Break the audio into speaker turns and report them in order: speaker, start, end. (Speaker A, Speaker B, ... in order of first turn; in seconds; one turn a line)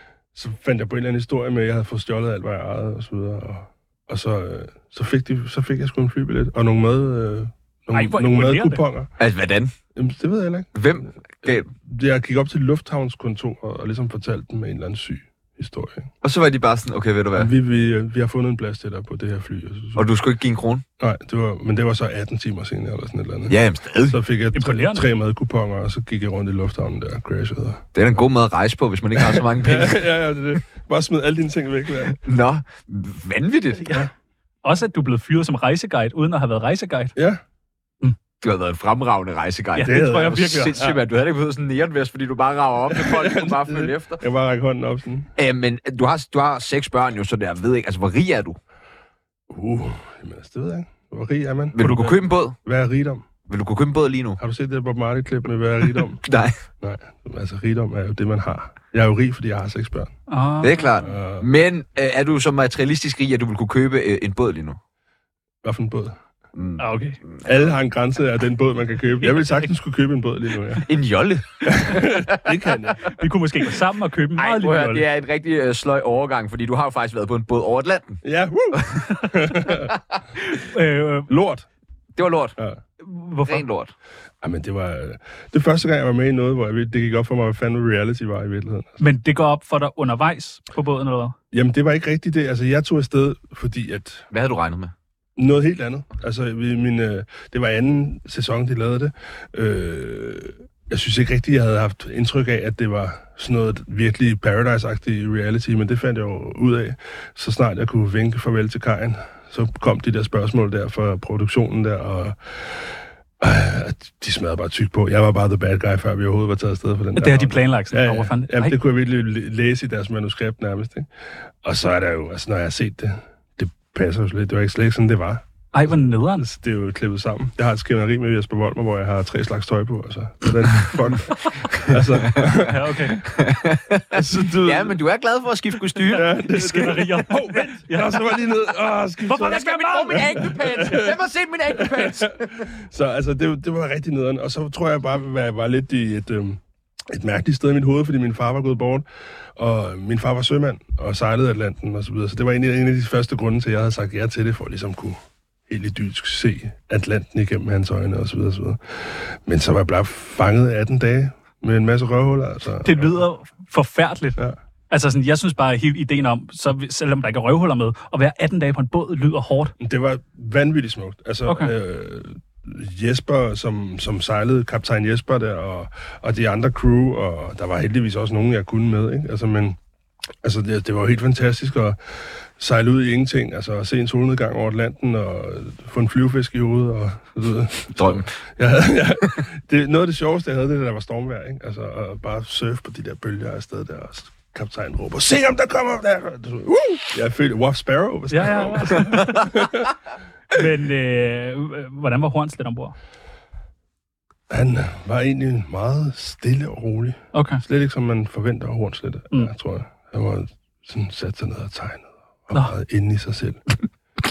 Speaker A: 0.3-9.1
Speaker B: 7.9-8.8
Speaker C: 9.2-9.7
Speaker A: 9.9-16.1
Speaker C: 10.8-11.7
Speaker C: 16.2-17.5
Speaker A: 17.3-20.1
Speaker C: 19.9-20.9
Speaker A: 21.0-27.8
Speaker C: 23.5-24.2
Speaker B: 24.5-25.1
Speaker C: 27.9-30.1
Speaker A: 29.1-32.2
Speaker C: 32.2-34.0
Speaker B: 34.6-37.1
Speaker A: 37.1-37.4
Speaker C: 38.4-44.2
Speaker B: 39.8-40.9
Speaker A: 39.8-41.0
Speaker A: 42.9-45.3
Speaker C: 45.4-48.6
Speaker A: 49.5-53.2
Speaker C: 51.7-52.6
Speaker B: 51.8-52.1
Speaker C: 53.5-54.4
Speaker A: 54.4-56.2
Speaker C: 56.2-56.5
Speaker A: 56.8-60.1
Speaker B: 60.3-61.0
Speaker C: 60.6-64.8
Speaker A: 61.0-61.5
Speaker A: 65.6-66.2
Speaker C: 66.5-67.5
Speaker B: 66.8-67.2
Speaker A: 67.4-70.9
Speaker B: 69.2-69.7
Speaker C: 70.8-72.3
Speaker A: 71.6-73.1
Speaker B: 73.0-75.0
Speaker C: 74.4-78.2
Speaker A: 78.2-79.9
Speaker B: 80.5-81.3
Speaker A: 81.3-81.7
Speaker C: 82.2-82.6
Speaker B: 83.0-83.6
Speaker C: 83.5-83.9
Speaker A: 84.4-89.0
Speaker B: 89.0-91.3
Speaker A: 91.5-94.3
Speaker C: 94.3-94.9
Speaker A: 95.4-112.8
Speaker A: 113.4-121.1
Speaker B: 117.2-118.8
Speaker A: 121.6-125.4
Speaker B: 125.7-126.4
Speaker A: 126.4-133.1
Speaker B: 132.7-133.2
Speaker C: 133.3-137.8
Speaker A: 134.1-135.0
Speaker B: 136.1-138.2
Speaker A: 136.1-141.2
Speaker B: 139.3-140.7
Speaker C: 139.4-142.7
Speaker A: 141.7-149.1
Speaker A: 149.6-163.2
Speaker B: 162.8-164.4
Speaker B: 164.9-169.7
Speaker A: 169.8-179.8
Speaker B: 171.5-171.7
Speaker A: 180.4-199.9
Speaker C: 187.9-188.3
Speaker B: 198.3-199.6
Speaker B: 200.5-202.9
Speaker A: 204.5-213.6
Speaker B: 207.3-207.6